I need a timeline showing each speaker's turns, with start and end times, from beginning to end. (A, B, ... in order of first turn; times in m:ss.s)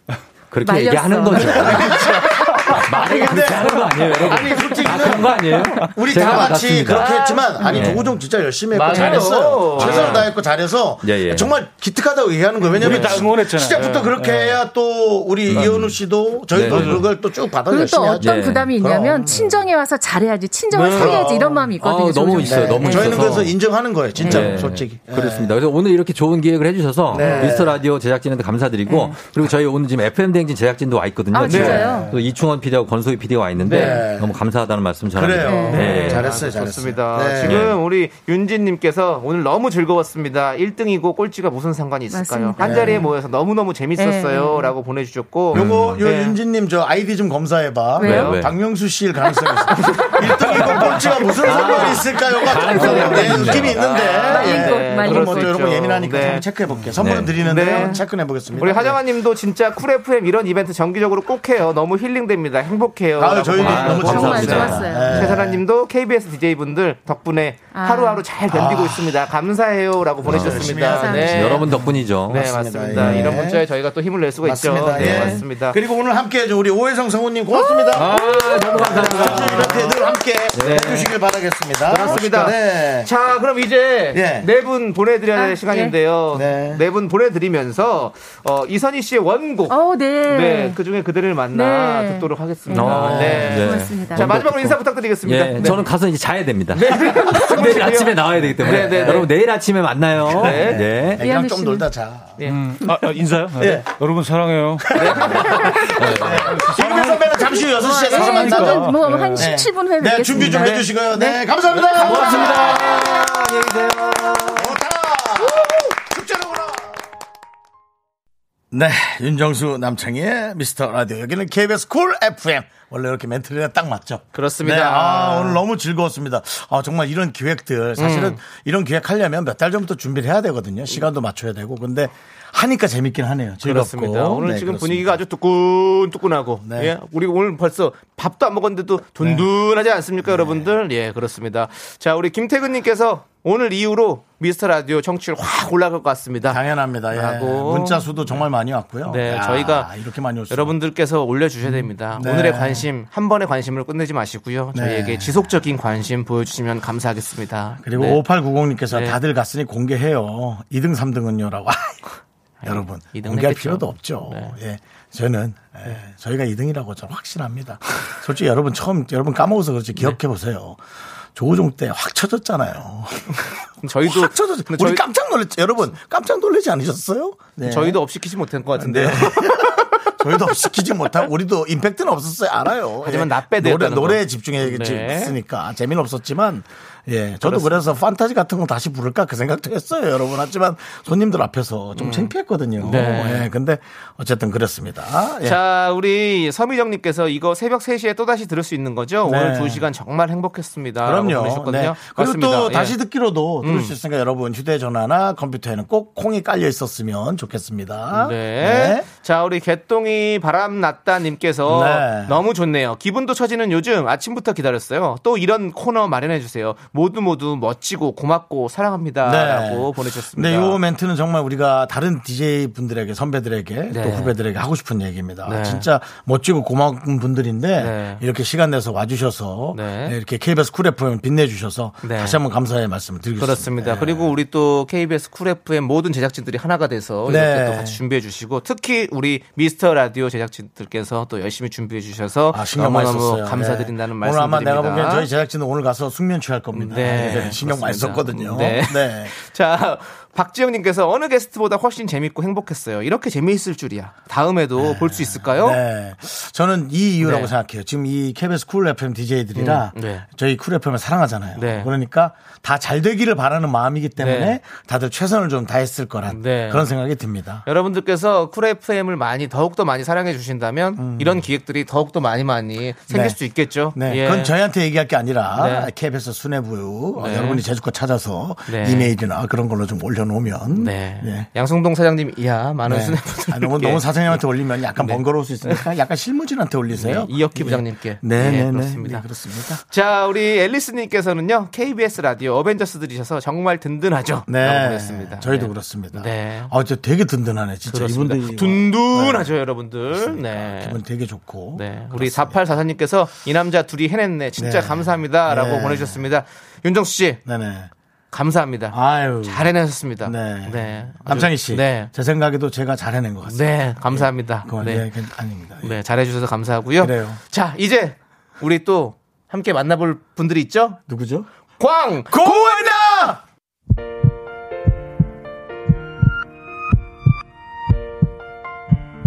0:00.5-0:02.0 A
0:00.6-0:02.7 B
0:01.6-0:19.5 C
0:02.7-0:08.1 A
0:07.3-0:08.0 D
0:08.7-0:10.3 D
0:08.9-0:09.2 B
0:09.7-0:10.4 A
0:11.0-0:11.6 A
0:12.7-0:14.6 E
0:13.8-0:14.1 D
0:15.5-0:17.2 A
0:16.7-0:17.0 E
0:17.7-0:23.3 B
0:18.2-0:18.8 A
0:20.7-0:21.7 C
0:21.8-0:23.6 A
0:22.4-0:25.5 C
0:23.2-0:23.5 D
0:24.2-0:36.3 A
0:27.1-0:27.8 C
0:27.2-0:27.5 D
0:27.2-0:27.5 B
0:28.9-0:29.2 B
0:31.3-0:32.1 B
0:31.5-0:32.0 D
0:31.5-0:32.1 C
0:33.6-0:34.0 D
0:33.7-0:34.4 C
0:35.1-0:37.7 C
0:35.4-0:36.1 B
0:35.7-0:46.4 D
0:37.4-0:37.7 A
0:42.1-0:43.1 B
0:42.6-0:43.0 C
0:44.0-0:44.7 B
0:45.5-0:46.0 A
0:45.5-0:59.0 C
0:48.0-0:48.4 B
0:48.0-0:48.4 D
0:48.0-0:48.6 A
0:49.2-0:50.8 B
0:49.8-0:52.0 D
0:51.4-0:53.8 A
0:51.6-0:51.9 B
0:52.4-0:55.6 B
0:52.7-0:56.4 D
0:57.0-0:57.6 A
0:57.4-0:58.0 D
0:57.7-0:58.0 B
0:58.6-1:11.7 D
1:03.2-1:05.6 C
1:03.5-1:05.0 A
1:03.7-1:05.1 B
1:07.7-1:08.2 B
1:08.5-1:09.1 C
1:10.2-1:13.4 A
1:10.2-1:11.6 C
1:10.8-1:11.6 B
1:12.3-1:15.8 D
1:12.3-1:13.6 C
1:14.4-1:23.1 C
1:14.9-1:15.4 A
1:17.5-1:18.9 B
1:17.9-1:20.0 A
1:18.9-1:19.8 D
1:19.9-1:20.2 B
1:20.5-1:21.1 A
1:21.9-1:35.9 D
1:24.1-1:24.5 C
1:25.4-1:25.9 B
1:26.3-1:26.8 C
1:29.7-1:30.8 B
1:31.5-1:34.3 B
1:32.7-1:41.2 A
1:32.9-1:33.6 C
1:36.7-1:39.3 D
1:38.6-1:39.3 C
1:40.3-1:40.9 D
1:40.3-1:42.9 C
1:41.2-1:41.9 B
1:42.4-1:45.4 E
1:43.6-1:43.9 C
1:44.8-1:53.3 C
1:45.0-1:45.4 A
1:45.4-1:45.8 B
1:46.0-1:46.5 A
1:46.5-1:49.5 E
1:47.7-1:51.4 B
1:51.7-1:54.7 D
1:52.2-1:52.6 B
1:54.6-1:56.9 C
1:58.7-2:15.2 C
2:04.3-2:05.6 D
2:08.0-2:08.4 D
2:13.6-2:28.4 D
2:16.6-2:16.9 C
2:20.3-2:20.6 C
2:26.5-2:30.8 C
2:29.1-2:29.9 D
2:30.5-2:38.2 D
2:32.2-2:32.8 C
2:34.7-2:35.4 C
2:37.8-2:42.0 C
2:38.9-2:39.2 D
2:42.6-2:44.6 D
2:42.6-2:50.8 C
2:51.4-2:53.5 C
2:53.8-2:55.0 D
2:54.0-2:58.0 C
2:57.6-3:00.0 D
2:58.8-3:15.6 C
3:03.0-3:05.4 D
3:07.4-3:07.9 D
3:12.0-3:13.5 D
3:15.4-3:23.0 D
3:19.2-3:19.8 C
3:21.0-3:29.1 C
3:23.6-3:24.0 D
3:28.1-3:40.8 D
3:31.7-3:32.4 C
3:39.2-3:54.3 C
3:43.9-3:44.4 D
3:45.5-3:45.9 D
3:47.8-3:48.2 D
3:49.7-3:50.2 D
3:52.0-3:52.4 D
3:53.4-4:05.3 D
3:57.3-3:58.0 C
4:02.5-4:09.3 C
4:06.7-4:15.8 D
4:14.8-4:27.6 C
4:17.2-4:17.5 D
4:19.6-4:20.2 D
4:21.6-4:21.9 D
4:24.2-4:24.6 D
4:26.3-4:26.9 D
4:27.6-4:34.5 D
4:31.0-4:31.4 C
4:33.1-4:33.4 C
4:34.0-4:41.5 C
4:35.6-4:35.9 D
4:37.2-4:37.6 D
4:38.7-4:39.1 D
4:40.8-4:44.4 D
4:42.9-4:49.8 C
4:45.0-4:45.9 D
4:46.9-4:49.3 D
4:49.9-4:56.7 D
4:54.5-4:59.5 C
4:57.9-5:01.0 D
5:00.2-5:02.6 C
5:01.8-5:07.4 D
5:04.6-5:06.2 C
5:07.5-5:07.9 C
5:08.3-5:12.1 D
5:08.9-5:09.7 C
5:10.2-5:16.0 C
5:13.5-5:15.1 D
5:15.8-5:21.0 D
5:17.0-5:17.4 C
5:21.1-5:21.5 C
5:21.8-5:23.0 D
5:22.3-5:23.4 C